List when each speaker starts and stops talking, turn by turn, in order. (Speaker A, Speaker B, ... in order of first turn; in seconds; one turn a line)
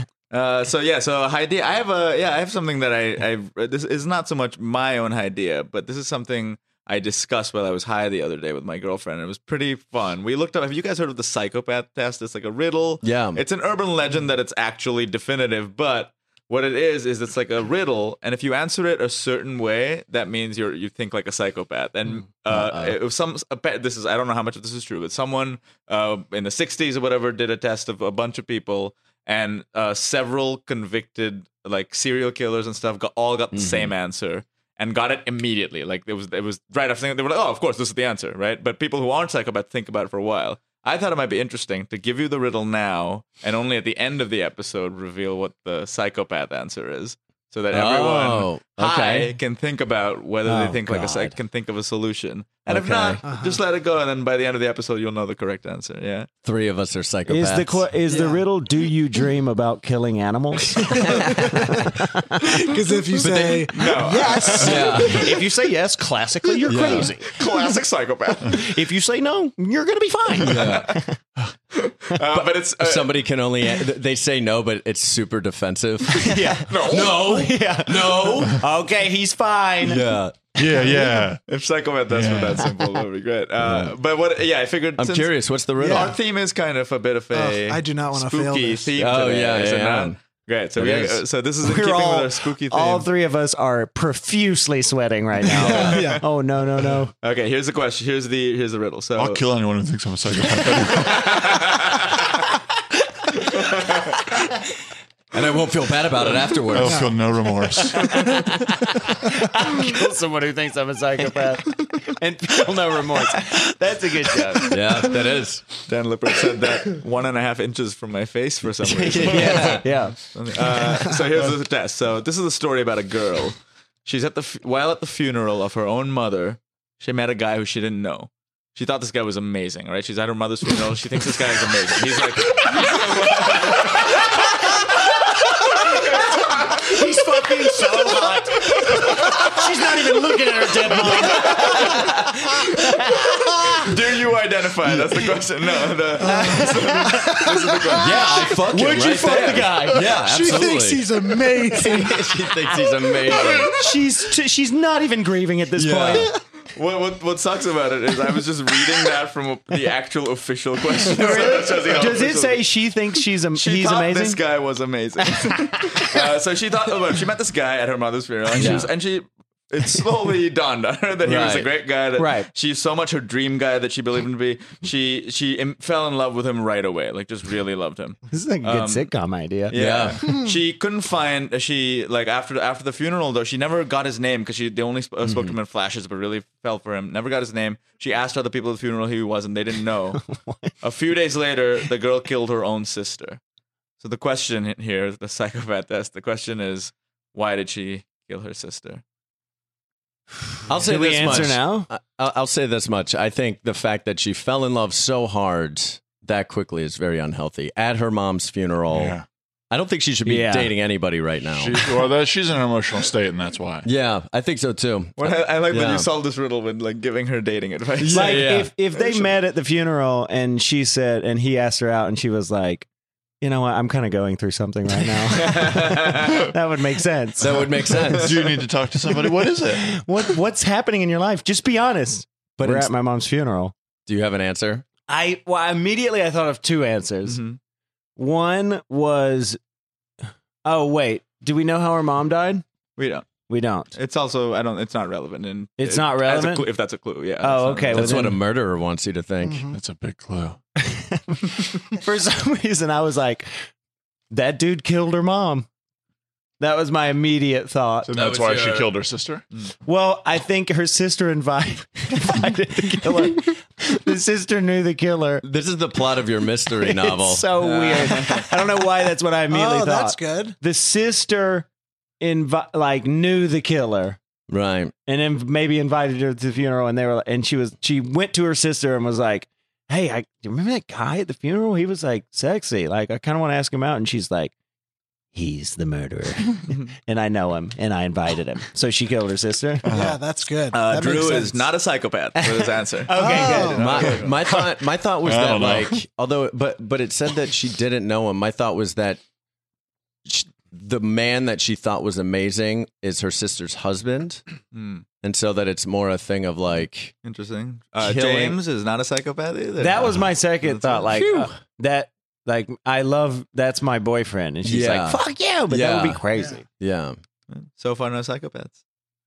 Speaker A: 0.3-56.3
Speaker B: 13.0-13.4
Speaker B: 22.5-23.0
Speaker B: 33.5-33.9
Speaker B: 47.7-48.7
Speaker C: 48.8-49.3
Speaker C: 50.5-51.4
Speaker B: 52.7-53.2
Speaker D: 53.2-53.6
Speaker B: 56.4-57.9
Speaker C: 57.3-62.5
Speaker D: 61.0-61.5
Speaker D: 62.4-65.3
Speaker B: 63.2-63.8
Speaker A: 63.3-65.1
Speaker B: 64.6-65.4
Speaker C: 65.1-67.4
Speaker B: 66.7-67.1
Speaker A: 66.8-68.6
Speaker C: 68.5-71.2
Speaker B: 70.4-70.9
Speaker A: 70.5-71.0
Speaker A: 71.7-73.2
Speaker B: 72.3-78.6
Speaker C: 76.2-80.0
Speaker A: 76.7-77.2
Speaker B: 79.8-80.7
Speaker E: 80.6-81.4
Speaker A: 81.5-93.1
Speaker E: 82.1-82.7
Speaker B: 83.6-83.9
Speaker B: 85.0-86.2
Speaker D: 85.8-86.2
Speaker D: 87.3-88.9
Speaker B: 89.0-90.2
Speaker B: 90.8-91.2
Speaker C: 91.6-97.1
Speaker D: 95.5-96.2
Speaker A: 95.7-96.1
Speaker A: 97.2-99.4
Speaker E: 99.2-101.6
Speaker A: 100.9-102.3
Speaker A: 103.5-104.1
Speaker B: 105.3-107.1
Speaker E: 106.7-108.2
Speaker D: 106.9-107.1
Speaker C: 108.5-115.0
Speaker B: 114.7-115.6
Speaker A: 115.8-134.3
Speaker B: 118.8-119.9
Speaker C: 119.2-120.2
Speaker C: 136.7-142.1
Speaker C: 142.7-143.2
Speaker A: 143.8-148.5
Speaker D: 146.2-148.1
Speaker C: 146.3-146.9
Speaker B: 148.0-153.8
Speaker C: 148.1-150.2
Speaker D: 149.5-152.5
Speaker C: 153.7-156.3
Speaker B: 155.8-156.3
Speaker A: 156.7-162.7
Speaker C: 161.0-164.4
Speaker A: 163.5-179.1
Speaker B: 168.5-168.9
Speaker B: 171.2-171.7
Speaker C: 172.2-172.5
Speaker C: 178.3-179.8
Speaker A: 179.7-190.2
Speaker B: 179.7-180.2
Speaker C: 190.2-190.7
Speaker A: 190.8-193.4
Speaker A: 194.0-199.0
Speaker B: 200.7-209.2
Speaker C: 200.9-201.9
Speaker E: 208.9-209.2
Speaker B: 209.7-212.0
Speaker C: 210.2-210.7
Speaker E: 211.5-213.9
Speaker B: 213.8-216.1
Speaker A: 215.2-218.5
Speaker B: 218.0-218.7
Speaker C: 218.1-222.9
Speaker C: 223.4-227.6
Speaker A: 225.4-226.5
Speaker B: 227.4-228.4
Speaker E: 228.1-230.0
Speaker C: 229.8-233.7
Speaker B: 232.6-232.9
Speaker B: 234.1-234.8
Speaker C: 235.1-237.4
Speaker A: 237.3-237.6
Speaker C: 238.2-239.6
Speaker C: 240.7-242.6
Speaker A: 243.0-243.3
Speaker C: 243.5-243.9
Speaker A: 243.9-248.2
Speaker C: 245.8-246.7
Speaker C: 247.4-248.4
Speaker B: 247.9-249.7
Speaker D: 249.4-249.8
Speaker E: 249.7-250.6
Speaker C: 250.8-253.5
Speaker C: 254.3-255.7
Speaker C: 256.6-258.2
Speaker E: 258.1-259.4
Speaker B: 258.2-258.9
Speaker C: 259.9-265.4
Speaker B: 265.4-267.5
Speaker C: 266.8-271.7
Speaker A: 267.6-268.5
Speaker D: 269.5-270.6
Speaker C: 272.2-274.2
Speaker B: 274.5-274.9
Speaker C: 275.1-284.5
Speaker C: 285.3-289.9
Speaker E: 289.9-290.2
Speaker D: 289.9-291.6
Speaker A: 290.7-294.4
Speaker C: 290.9-291.4
Speaker C: 292.4-294.2
Speaker D: 293.1-294.3
Speaker B: 293.8-299.2
Speaker E: 295.2-296.0
Speaker B: 300.2-304.4
Speaker A: 304.7-305.1
Speaker B: 305.2-307.1
Speaker A: 307.2-311.1
Speaker B: 308.0-308.6
Speaker C: 309.8-316.6
Speaker B: 314.6-316.2
Speaker B: 316.8-317.2
Speaker A: 317.5-318.8